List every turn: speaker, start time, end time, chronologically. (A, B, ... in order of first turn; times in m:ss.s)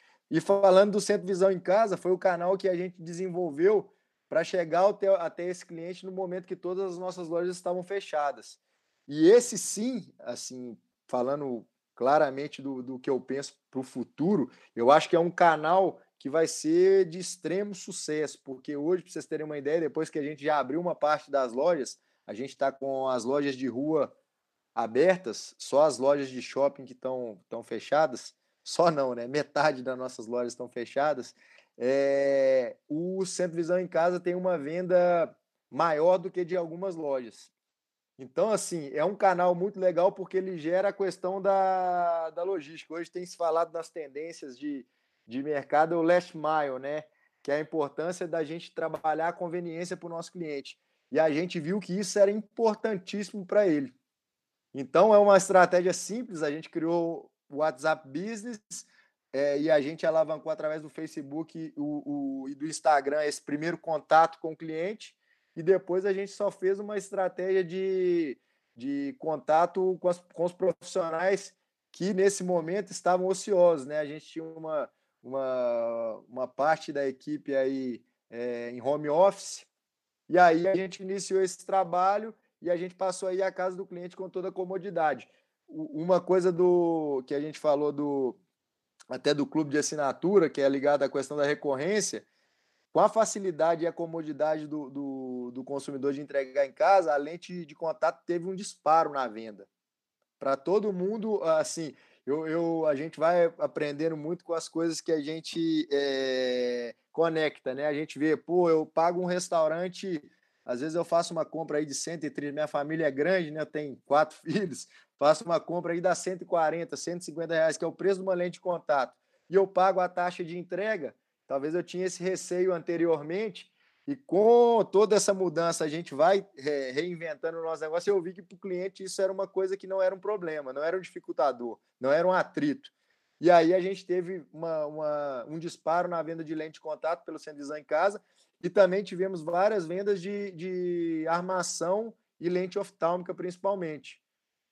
0:00.3-0:24.1 A
0:24.7-0:37.5 A
0:38.2-0:53.9 A
0:54.7-1:19.7 A
1:20.3-1:28.4 A
1:29.1-1:32.2 A
1:32.9-1:39.7 A
1:40.4-2:24.2 A